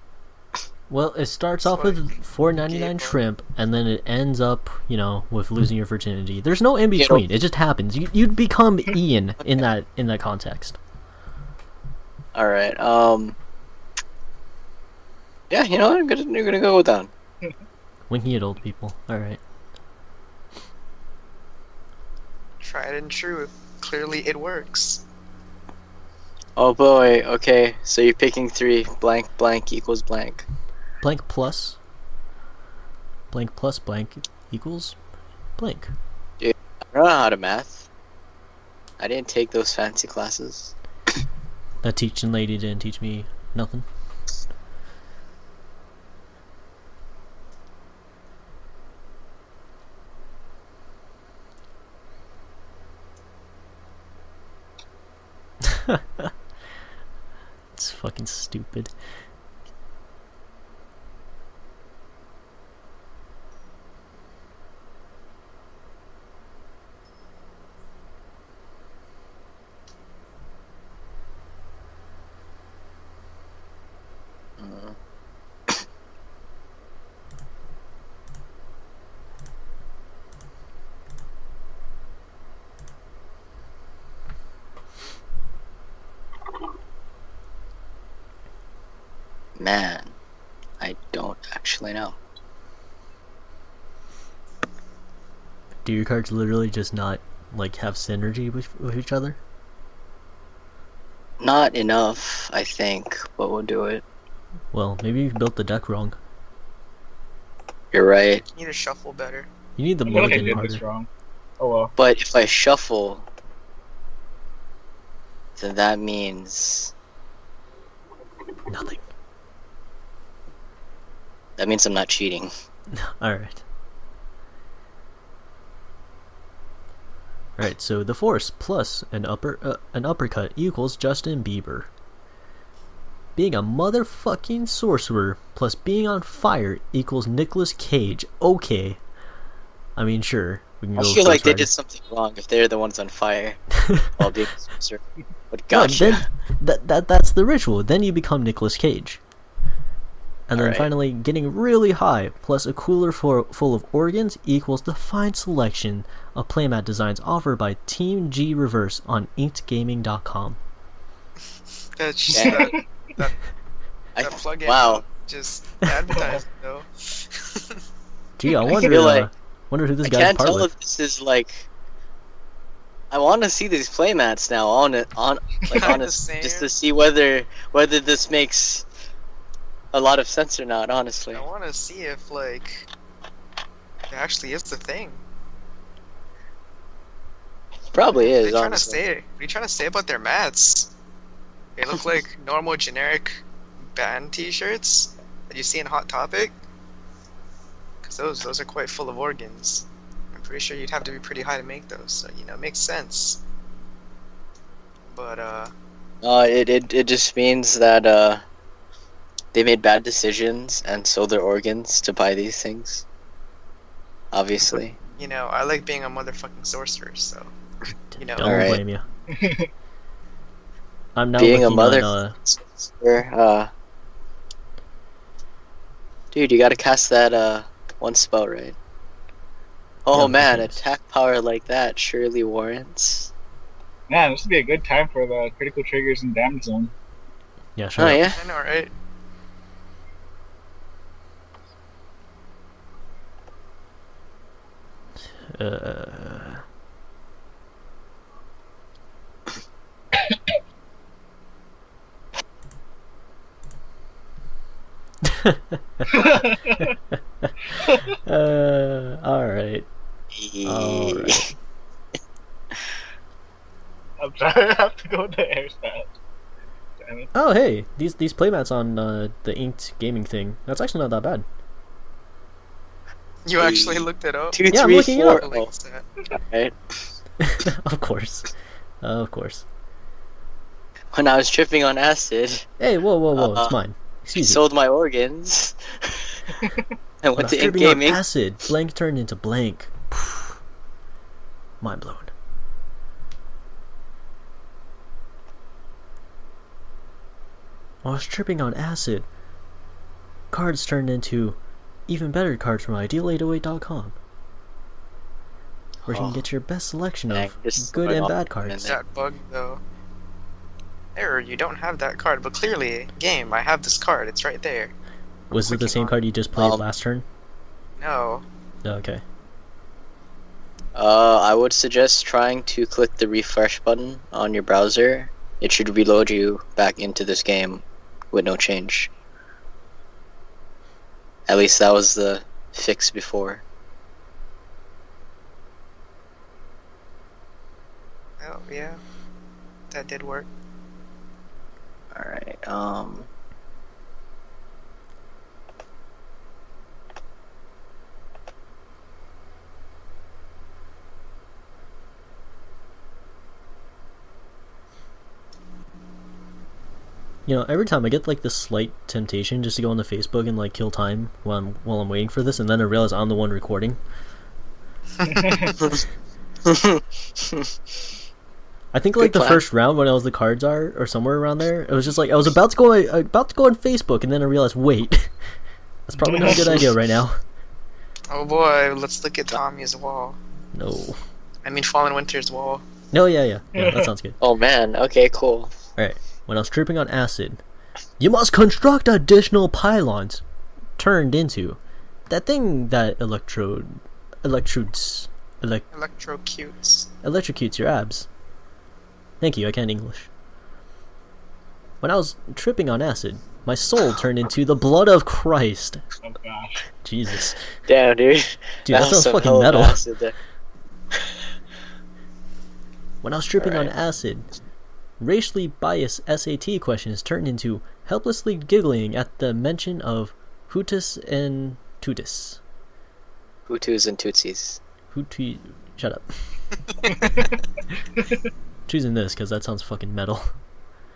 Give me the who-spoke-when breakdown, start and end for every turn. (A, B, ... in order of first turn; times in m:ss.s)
0:00.9-0:10.8 A
0:01.6-0:02.1 B
0:02.7-0:03.0 C
0:07.0-0:07.2 C
0:12.3-0:13.4 C
0:15.5-0:17.1 C
0:18.1-0:19.4 A
0:22.6-0:25.0 B
0:26.6-0:30.4 C
0:31.0-0:31.8 A
0:33.3-0:35.0 A
0:35.6-0:35.9 A
0:36.4-0:37.9 C
0:39.0-0:40.7 C
0:41.8-0:43.8 A
0:55.9-0:56.3 A
0:57.7-0:58.9 A
1:14.6-1:15.0 C
1:29.6-1:30.1 C
1:30.8-1:32.2 C
1:35.8-1:39.4 A
1:41.4-1:44.0 C
1:44.7-1:46.2 A
1:47.9-1:48.4 C
1:48.5-1:49.5 B
1:49.8-1:50.8 A
1:50.1-1:51.9 D
1:52.0-1:53.2 C
1:55.6-1:56.9 C
1:58.7-1:59.0 A
2:01.6-2:02.5 C
2:02.9-2:03.6 A
2:07.6-2:11.9 A
2:13.4-2:19.0 A
2:20.0-2:21.7 A
2:21.0-2:23.6 C
2:24.2-2:26.3 C
2:25.7-2:29.2 A
2:30.5-2:40.6 A
2:30.5-2:30.9 C
2:42.0-2:43.5 B
2:42.3-2:42.8 D
2:42.3-2:42.7 C
2:44.1-2:45.0 C
2:44.2-2:47.8 B
2:46.1-2:46.4 D
2:48.4-2:50.7 A
2:48.8-2:49.3 C
2:50.0-2:51.7 C
2:53.1-2:58.8 C
2:55.7-2:56.7 B
2:59.9-3:01.4 C
3:01.3-3:02.9 B
3:04.1-3:05.2 B
3:07.9-3:09.0 C
3:08.3-3:10.9 B
3:11.8-3:13.4 B
3:13.9-3:16.5 B
3:18.0-3:23.4 B
3:25.1-3:25.7 B
3:26.2-3:28.4 C
3:29.5-3:33.0 C
3:34.3-3:35.0 C
3:34.6-3:37.5 B
3:38.1-3:39.0 A
3:38.2-3:38.8 B
3:38.4-3:38.8 C
3:39.3-3:39.7 D
3:41.2-3:42.3 A
3:41.4-3:43.7 C
3:46.3-3:48.8 C
3:50.0-3:53.3 C
3:50.1-3:50.8 A
3:54.1-3:56.9 D
3:57.8-3:58.4 A
3:58.0-3:58.4 C
3:58.4-3:58.9 B
4:05.5-4:06.6 A
4:15.2-4:16.0 A
4:16.1-4:17.0 D
4:18.2-4:19.9 A
4:20.3-4:21.5 C
4:20.6-4:21.5 A
4:24.2-4:26.1 D
4:27.0-4:27.3 D
4:27.3-4:31.4 A
4:33.4-4:36.0 B
4:33.6-4:35.7 C
4:34.7-4:35.4 A
4:36.3-4:36.8 C
4:37.4-4:38.5 A
4:39.0-4:39.6 A
4:41.1-4:42.7 C
4:42.8-4:44.6 A
4:43.3-4:43.8 C
4:44.4-4:46.4 C
4:46.6-4:46.8 D
4:47.2-4:48.2 C
4:47.4-4:50.6 A
4:51.8-4:52.3 A
4:58.0-4:59.3 A
5:00.5-5:04.2 A
5:06.0-5:06.4 C
5:06.1-5:08.9 A
5:07.3-5:09.0 C
5:08.8-5:09.8 B
5:11.2-5:14.9 B
5:15.5-5:17.2 A
5:15.6-5:16.1 B
5:16.6-5:16.8 C
5:18.0-5:18.4 B
5:18.8-5:19.2 A
5:20.9-5:29.1 C
5:31.5-5:33.6 C
5:38.4-5:39.0 B
5:39.9-5:40.5 B
5:42.1-5:43.3 C
5:57.5-6:04.0 A
6:05.2-6:05.7 D
6:05.2-6:05.8 B
6:06.6-6:07.7 C
6:08.9-6:15.3 A
6:09.2-6:09.6 C
6:16.1-6:17.4 A
6:16.2-6:16.8 D
6:16.5-6:16.8 C
6:18.3-6:20.4 B
6:20.7-6:21.2 A
6:21.6-6:22.8 B
6:23.1-6:24.4 A
6:23.7-6:24.1 D
6:24.4-6:25.8 C
6:26.0-6:27.6 A
6:28.2-6:30.4 A
6:31.0-6:35.8 A
6:35.9-6:37.1 B
6:37.2-6:38.3 A
6:39.4-6:40.3 A
6:42.0-6:46.0 A
6:46.2-6:46.9 D
6:47.0-6:47.7 A
6:47.8-6:50.3 C
6:48.8-6:50.0 A
6:53.2-6:54.5 A
6:53.6-6:53.9 C
6:55.2-7:02.6 A
7:03.7-7:04.8 C
7:05.1-7:06.3 A
7:08.9-7:10.5 A